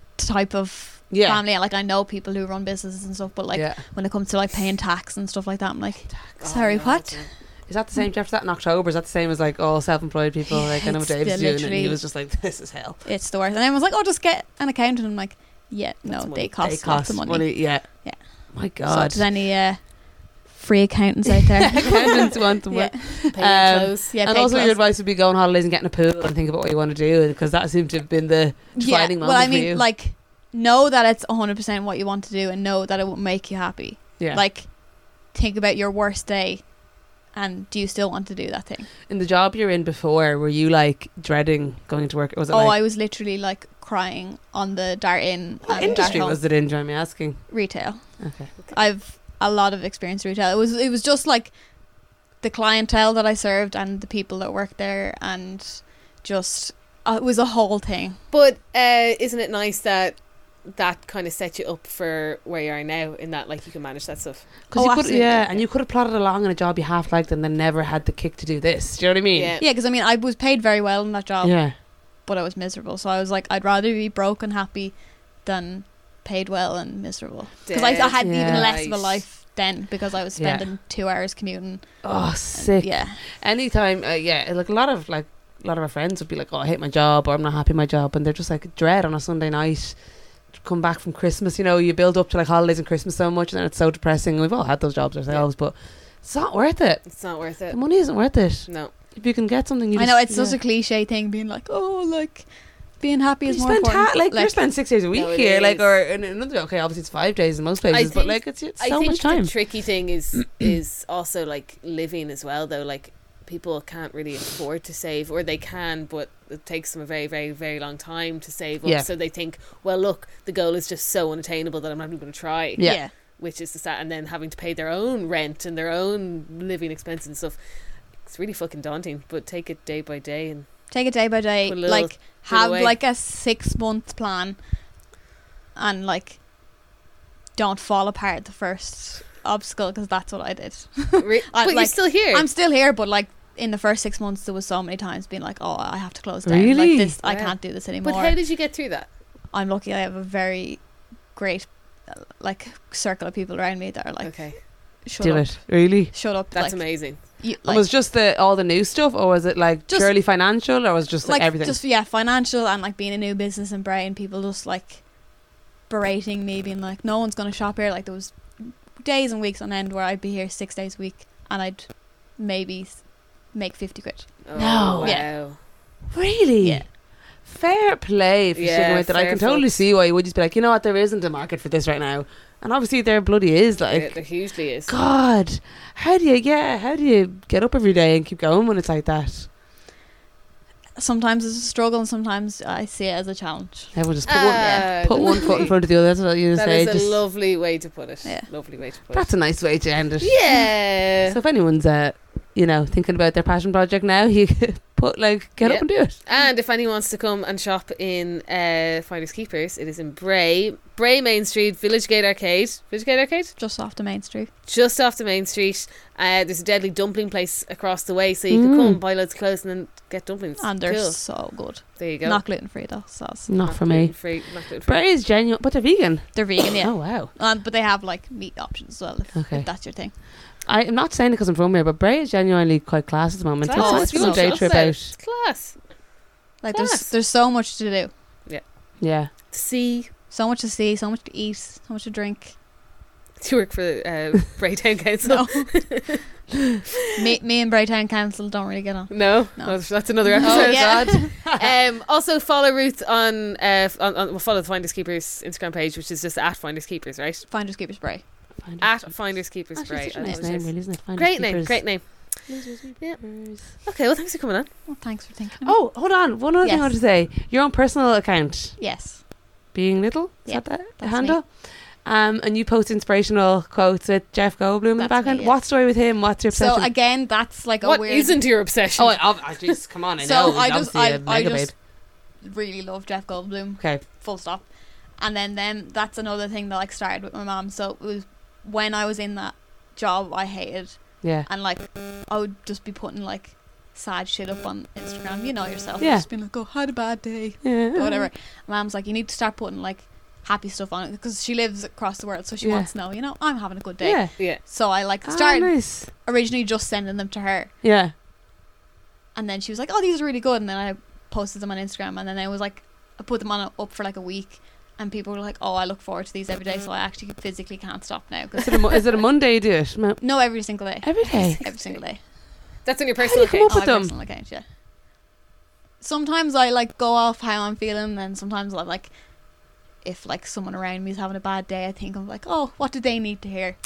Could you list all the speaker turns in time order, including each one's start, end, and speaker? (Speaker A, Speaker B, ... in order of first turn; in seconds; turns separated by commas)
Speaker A: 0.1-7.3, Speaker B: 1.1-1.4, Speaker B: 3.5-3.8, Speaker C: 6.4-7.3, Speaker B: 7.7-13.0, Speaker A: 10.5-12.0, Speaker A: 13.0-23.4, Speaker C: 16.0-16.5, Speaker B: 16.6-19.3, Speaker B: 21.7-29.8, Speaker C: 23.3-24.1, Speaker A: 24.1-24.8, Speaker A: 28.7-38.9, Speaker B: 34.2-34.4, Speaker B: 39.1-42.8, Speaker A: 42.5-46.5, Speaker B: 45.6-47.7, Speaker A: 47.5-51.8, Speaker B: 48.2-48.5, Speaker A: 52.4-58.2, Speaker C: 58.3-64.7, Speaker B: 64.7-69.6, Speaker A: 64.7-65.6, Speaker C: 69.3-69.6, Speaker A: 69.6-83.2, Speaker B: 71.4-71.8, Speaker C: 77.7-79.2, Speaker B: 78.2-78.7, Speaker B: 80.3-80.7, Speaker B: 82.0-100.6, Speaker C: 97.0-98.9, Speaker A: 99.9-104.6, Speaker B: 103.5-110.0, Speaker C: 105.1-106.0, Speaker C: 107.9-130.9, Speaker B: 122.8-123.0, Speaker A: 122.8-123.1, Speaker A: 130.9-134.6, Speaker C: 131.6-132.9, Speaker A: 135.7-136.4, Speaker A: 137.5-148.4, Speaker C: 141.2-142.4, Speaker B: 146.4-147.2, Speaker C: 147.2-149.1, Speaker A: 149.5-157.9, Speaker C: 154.2-154.7, Speaker B: 155.2-156.1, Speaker C: 156.5-157.2, Speaker B: 157.6-161.8, Speaker A: 159.9-160.4, Speaker A: 161.2-175.3, Speaker C: 174.4-175.6, Speaker B: 174.5-175.5, Speaker B: 176.1-189.5, Speaker A: 176.6-176.9, Speaker C: 178.5-179.8, Speaker C: 183.8-184.9, Speaker A: 190.9-195.6, Speaker B: 193.9-197.2, Speaker C: 194.2-201.4, Speaker B: 199.1-206.2, Speaker C: 205.6-213.5, Speaker A: 213.6-214.5, Speaker C: 214.7-222.4, Speaker B: 218.5-219.0, Speaker A: 220.6-223.5, Speaker B: 223.5-227.3, Speaker C: 223.6-225.1, Speaker A: 226.3-230.2, Speaker B: 229.3-235.1, Speaker C: 233.6-236.0, Speaker A: 233.7-234.8, Speaker A: 236.6-238.1, Speaker C: 236.7-237.1, Speaker B: 239.0-239.3, Speaker C: 239.3-240.1, Speaker A: 240.3-242.6, Speaker C: 243.4-246.2, Speaker A: 245.2-246.2, Speaker A: 247.1-251.3, Speaker C: 249.1-257.5, Speaker B: 250.4-251.7, Speaker A: 257.5-258.2, Speaker B: 258.6-263.7, Speaker C: 258.8-264.8, Speaker A: 260.2-260.5, Speaker A: 264.9-266.9, Speaker B: 265.6-268.8, Speaker A: 268.8-269.2, Speaker B: 269.7-276.9, Speaker A: 270.4-271.4, Speaker A: 275.0-275.6, Speaker A: 276.5-278.4, Speaker C: 277.8-279.8, Speaker B: 278.9-281.7, Speaker A: 280.2-307.7, Speaker B: 291.2-291.5, Speaker B: 296.0-296.3, Speaker B: 297.6-298.3, Speaker B: 302.6-302.9, Speaker B: 304.0-304.4, Speaker B: 305.2-306.1, Speaker B: 307.8-308.1, Speaker A: 309.3-319.1, Speaker B: 318.6-321.6, Speaker A: 320.2-322.2, Speaker C: 321.6-321.9, Speaker C: 322.8-323.7, Speaker B: 323.2-324.1, Speaker A: 323.7-324.6, Speaker A: 326.0-329.1, Speaker A: 330.0-333.8